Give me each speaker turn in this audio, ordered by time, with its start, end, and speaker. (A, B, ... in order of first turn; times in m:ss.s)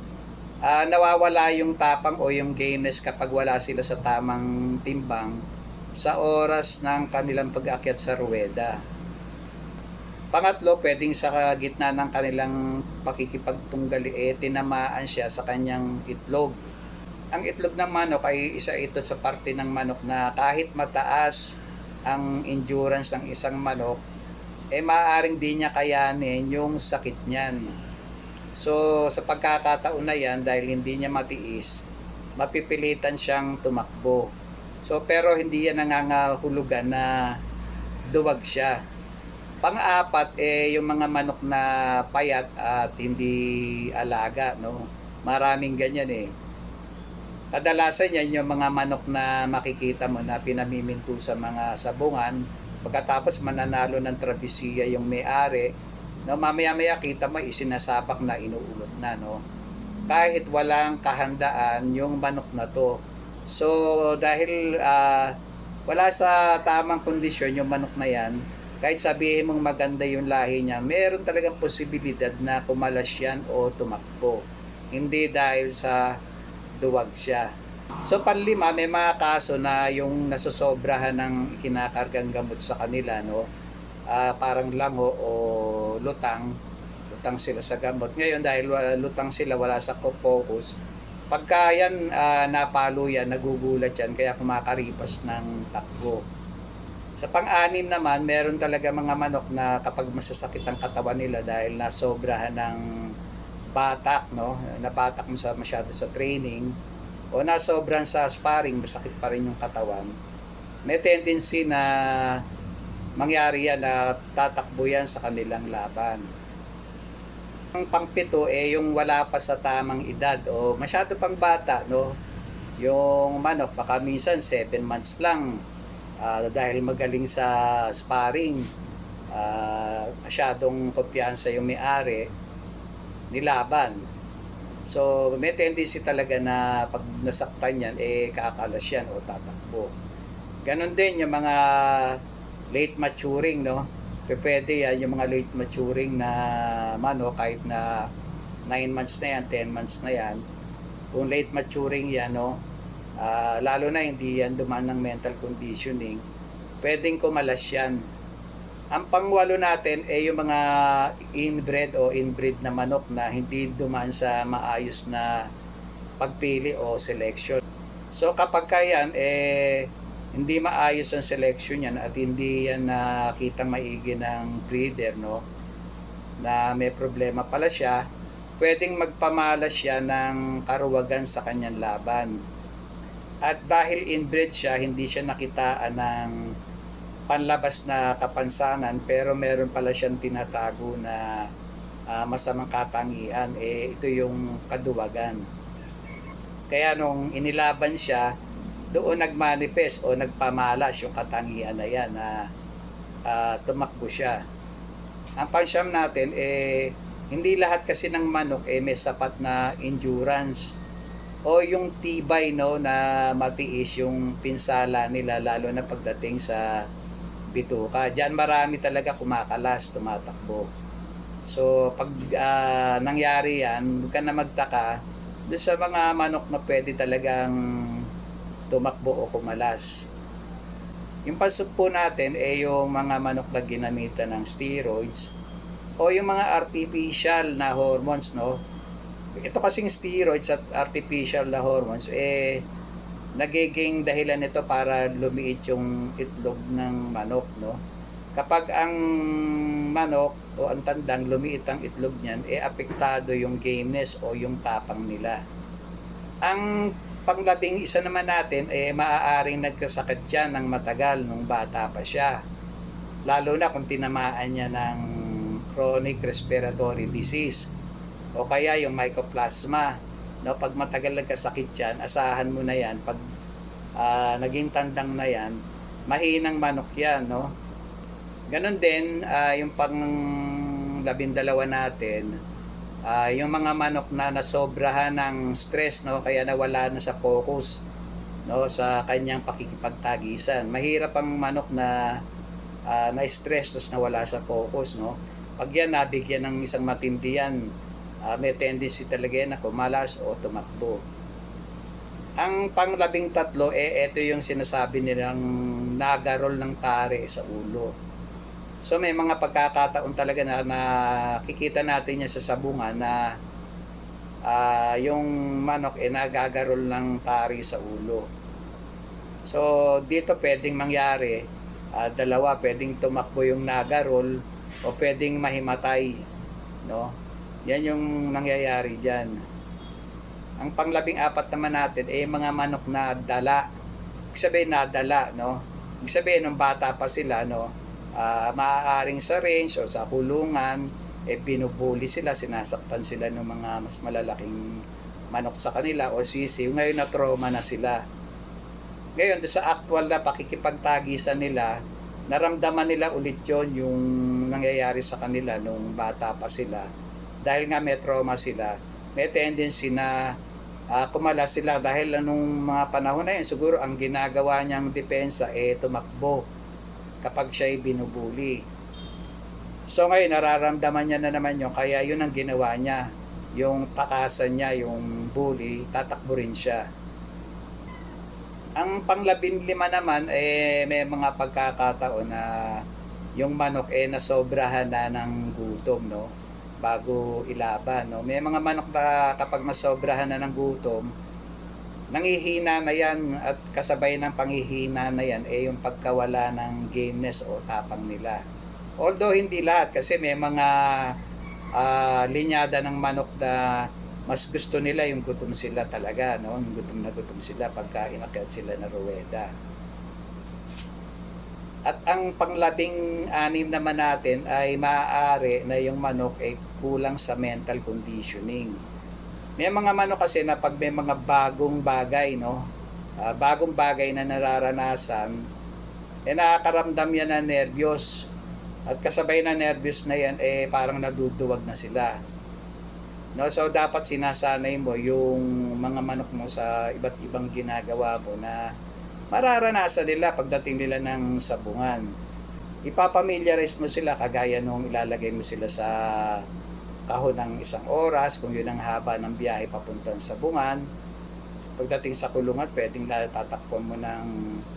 0:00.6-0:05.4 A
0:06.0-0:08.8 A
0:10.3-0:16.6 A
0:17.3-0:21.6 A
0:22.1-0:24.0 A
0:24.7-0:27.6 A
0:28.5-0:31.8 A
0:32.4-0:34.3 A
0:34.8-0:37.2 A
0:38.1-0:38.8 A
0:39.6-0:46.3 A
0:47.5-0:55.7 A
0:56.2-0:59.4 A
1:00.1-1:03.0 A
1:03.5-1:05.4 A
1:05.9-1:16.1 A
1:16.8-1:17.5 A
1:18.0-1:23.4 A
1:24.1-1:26.5 A
1:27.1-1:30.7 A
1:31.3-1:36.2 A
1:37.2-1:42.8 A
1:43.7-1:46.7 A
1:47.3-1:50.1 A
1:50.9-1:52.4 A
1:53.2-1:56.3 A
1:57.7-2:02.1 A
2:02.8-2:05.6 A
2:06.2-2:08.7 A
2:09.3-2:12.3 A
2:13.3-2:14.0 A
2:14.8-2:19.9 A
2:20.6-2:22.2 A
2:22.7-2:28.1 A
2:28.7-2:30.4 A
2:31.1-2:32.6 A
2:33.2-2:36.2 A
2:36.8-2:38.0 A
2:38.9-2:45.4 A
2:46.2-2:47.6 A
2:48.1-2:55.4 A
2:56.4-2:58.0 A
2:58.6-3:02.4 A
3:03.4-3:06.4 A
3:07.3-3:11.4 A
3:12.1-3:15.4 A
3:16.7-3:18.3 A
3:18.9-3:22.5 A
3:23.3-3:24.4 A
3:25.4-3:30.7 A
3:31.5-3:36.8 A
3:37.5-3:40.7 A
3:41.5-3:44.9 A
3:45.5-3:48.0 A
3:48.7-3:50.0 A
3:51.2-3:55.3 A
3:56.0-3:58.6 A
3:59.4-4:02.6 A
4:03.4-4:07.8 A
4:08.3-4:15.4 A
4:16.4-4:22.4 A
4:23.3-4:27.7 A
4:28.4-4:33.2 A
4:34.0-4:35.6 A
4:36.1-4:37.5 A
4:38.5-4:42.3 A
4:43.0-4:47.8 A
4:48.5-4:52.2 A
4:52.9-4:57.6 A
4:58.2-5:01.0 A
5:02.4-5:07.9 A
5:08.8-5:13.3 A
5:14.4-5:18.2 A
5:19.4-5:24.3 A
5:24.8-5:26.1 A
5:26.8-5:27.1 A
5:27.7-5:29.4 A
5:30.6-5:33.6 A
5:34.3-5:44.7 A
5:45.3-5:48.0 A
5:49.2-5:51.7 A
5:52.3-5:56.9 A
5:57.4-6:00.3 A
6:00.9-6:06.4 A
6:07.2-6:08.6 A
6:09.9-6:13.0 A
6:13.6-6:16.8 A
6:18.8-6:22.8 A
6:23.4-6:26.3 A
6:26.8-6:31.1 A
6:32.1-6:38.4 A
6:39.0-6:41.1 A
6:41.8-6:49.5 A
6:51.9-6:58.8 A
6:59.6-7:02.6 A
7:03.2-7:05.4 A
7:06.3-7:08.3 A
7:08.9-7:12.1 A
7:13.4-7:18.7 A
7:19.3-7:22.1 A
7:22.9-7:26.4 A
7:27.1-7:30.8 A
7:31.8-7:34.4 A